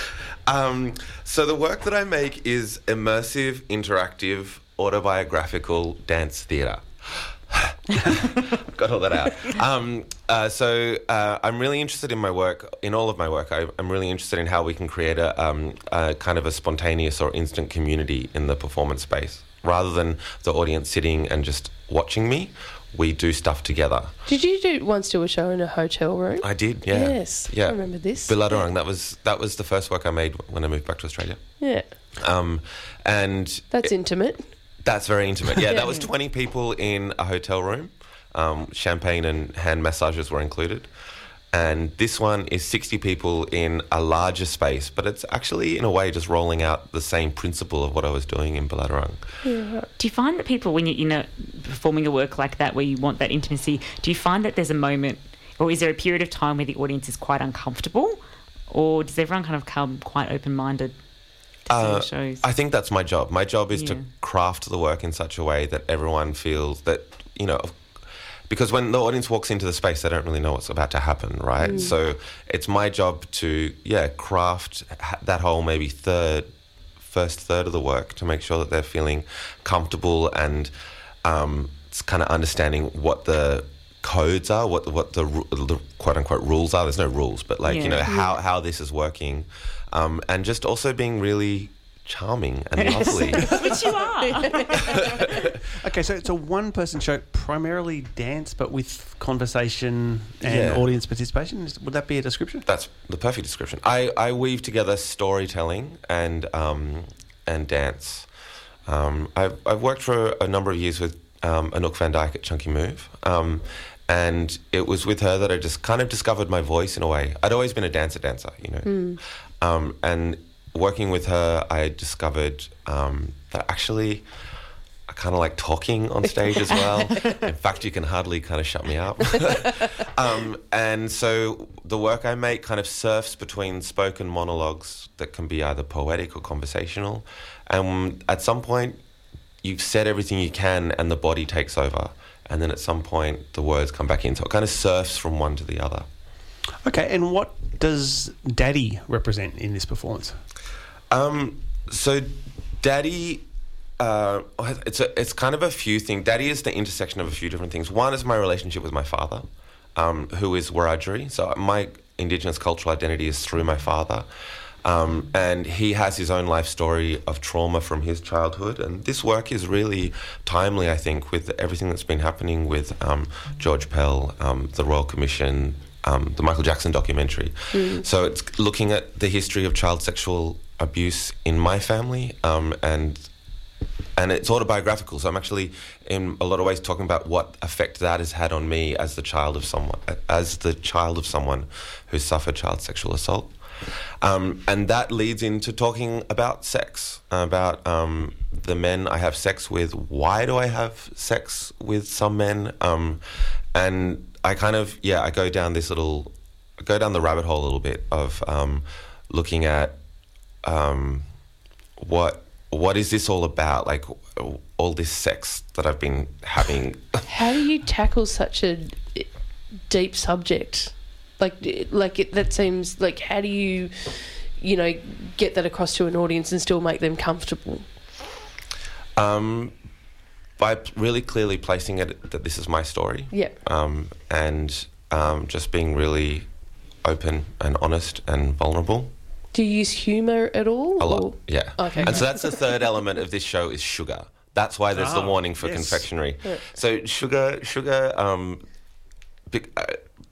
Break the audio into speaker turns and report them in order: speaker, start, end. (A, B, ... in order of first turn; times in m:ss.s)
0:00.5-0:24.1 A
0:24.2-0:28.6 B
0:26.4-0:31.6 A
0:31.6-0:32.0 B
0:32.1-0:34.2 A
0:33.7-0:34.5 B
0:34.8-0:40.9 A
0:35.6-0:36.1 B
0:41.5-0:49.2 A
0:49.4-0:49.9 B
0:50.0-0:58.2 C
0:58.7-1:00.9 C
1:01.6-1:02.4 C
1:01.7-1:20.7 A
1:03.7-1:04.0 C
1:11.6-1:11.9 B
1:21.2-1:33.6 A
1:27.6-1:28.0 C
1:28.0-1:28.3 B
1:32.9-1:33.6 B
1:33.0-1:35.0 C
1:35.8-1:42.6 D
1:40.4-1:40.9 A
1:42.6-1:48.3 A
1:48.8-2:04.3 A
1:58.8-1:59.2 B
2:05.1-2:19.0 A
2:06.7-2:07.4 B
2:19.6-2:26.0 A
2:26.8-2:30.4 D
2:31.1-2:33.4 A
2:34.0-2:44.3 A
2:44.8-3:03.3 A
2:57.7-2:58.0 B
3:04.2-3:13.6 A
3:14.2-3:23.2 A
3:23.7-3:30.0 A
3:30.6-3:31.3 A
3:32.0-3:37.2 A
3:37.3-3:39.3 B
3:39.8-3:47.9 B
3:49.2-3:49.8 A
3:50.6-3:56.5 A
3:53.3-3:53.6 B
3:57.0-3:59.1 A
3:59.5-4:02.6 B
4:01.0-4:08.6 A
4:04.9-4:06.1 D
4:09.5-4:10.0 A